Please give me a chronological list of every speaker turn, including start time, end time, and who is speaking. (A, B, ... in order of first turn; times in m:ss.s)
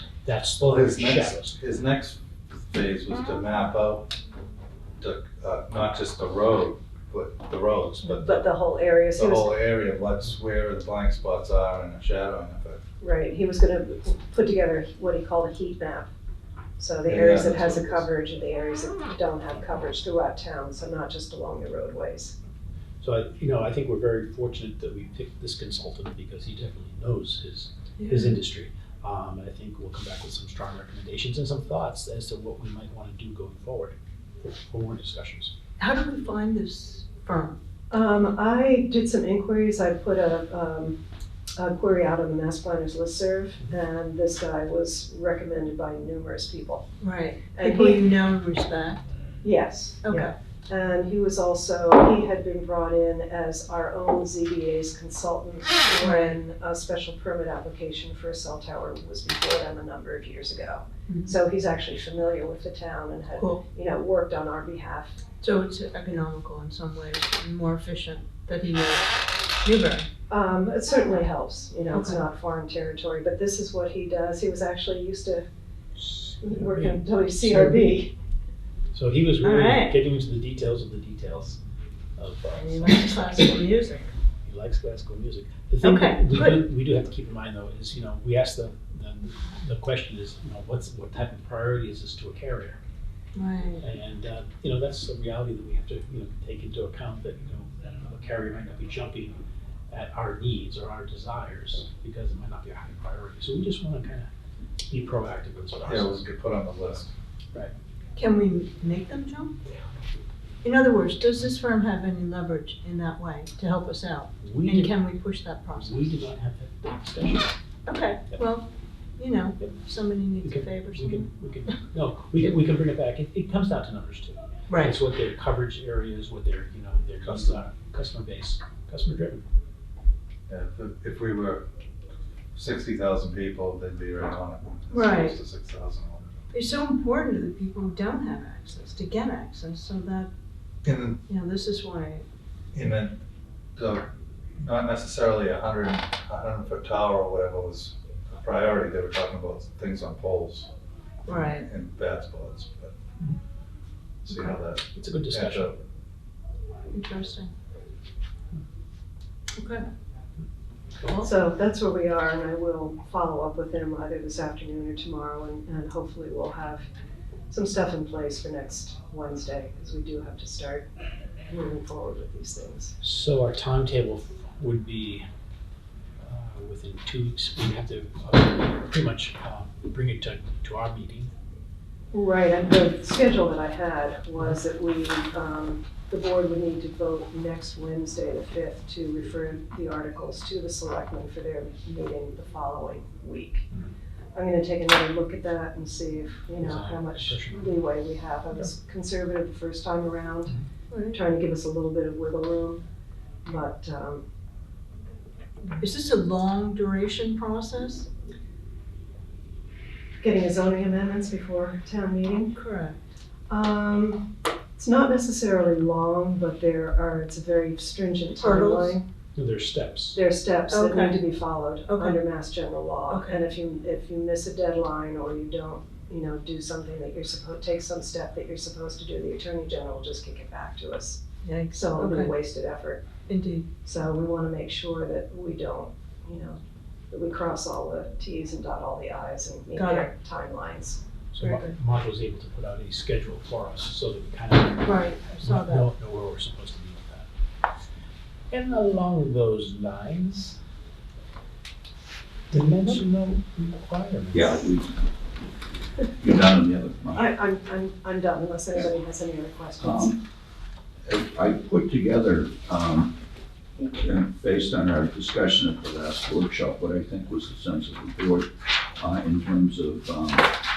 0:00.2-0:01.6 A
0:00.6-0:04.1 B
0:05.0-0:08.5 B
0:08.0-0:09.6 C
0:09.1-0:12.8 B
0:13.0-0:16.1 C
0:16.8-0:22.4 C
0:17.0-0:18.1 B
0:23.0-0:35.5 A
0:28.0-0:28.4 D
0:35.8-0:37.6 D
0:37.9-0:41.0 C
0:41.6-0:46.9 C
0:47.0-0:49.0 D
0:47.5-0:48.1 C
0:49.4-1:05.2 C
0:50.0-0:50.4 D
0:56.0-0:56.4 D
1:01.1-1:01.4 D
1:03.3-1:03.6 D
1:05.4-1:09.1 D
1:09.6-1:10.1 D
1:10.3-1:15.5 C
1:11.9-1:12.2 D
1:16.0-1:18.0 A
1:16.4-1:18.1 C
1:18.9-1:21.6 A
1:19.4-1:20.0 D
1:22.2-1:23.6 A
1:22.5-1:24.1 D
1:24.4-1:32.8 A
1:25.8-1:26.6 D
1:33.4-1:33.8 D
1:33.8-1:44.3 A
1:44.9-1:46.2 A
1:45.8-1:47.1 B
1:48.2-1:49.6 D
1:50.6-1:56.1 D
1:54.4-1:55.0 A
1:55.7-1:57.6 A
1:57.9-2:01.3 D
2:00.4-2:09.4 A
2:04.7-2:05.0 D
2:07.2-2:07.6 B
2:10.5-2:11.7 B
2:12.6-2:16.4 B
2:14.9-2:15.4 D
2:16.5-2:20.3 D
2:20.8-2:21.2 B
2:21.3-2:22.2 D
2:22.7-2:23.2 B
2:23.8-2:30.7 B
2:31.3-2:31.7 D
2:31.3-2:33.0 B
2:34.2-2:35.8 B
2:34.9-2:35.7 A
2:36.9-2:37.5 D
2:39.6-2:39.8 D
2:41.0-2:41.3 D
2:41.2-2:46.8 C
2:47.5-2:50.9 C
2:51.5-2:53.0 C
2:53.0-2:55.3 A
2:56.2-3:01.3 A
3:02.1-3:13.7 C
3:14.3-3:20.6 C
3:16.6-3:17.8 A
3:20.9-3:21.2 D
3:21.1-3:22.8 C
3:23.4-3:24.2 C
3:25.8-3:28.1 D
3:30.2-3:32.5 C
3:32.5-3:33.0 D
3:33.5-3:39.0 C
3:38.4-3:39.0 D
3:39.4-3:40.2 A
3:40.1-3:51.2 C
3:40.7-3:41.2 D
3:41.9-3:42.2 D
3:43.1-3:43.5 D
3:51.4-3:52.3 D
3:51.7-3:53.1 C
3:53.3-3:53.7 D
3:53.8-3:56.6 C
3:57.1-4:01.0 C
3:59.8-4:00.1 D
4:01.3-4:07.3 A
4:01.4-4:01.8 D
4:04.8-4:05.9 D
4:08.5-4:10.6 A
4:12.5-4:14.7 A
4:14.3-4:15.0 E
4:16.2-4:17.3 E
4:17.1-4:20.2 C
4:19.8-4:20.2 E
4:21.1-4:23.1 E
4:23.9-4:30.5 E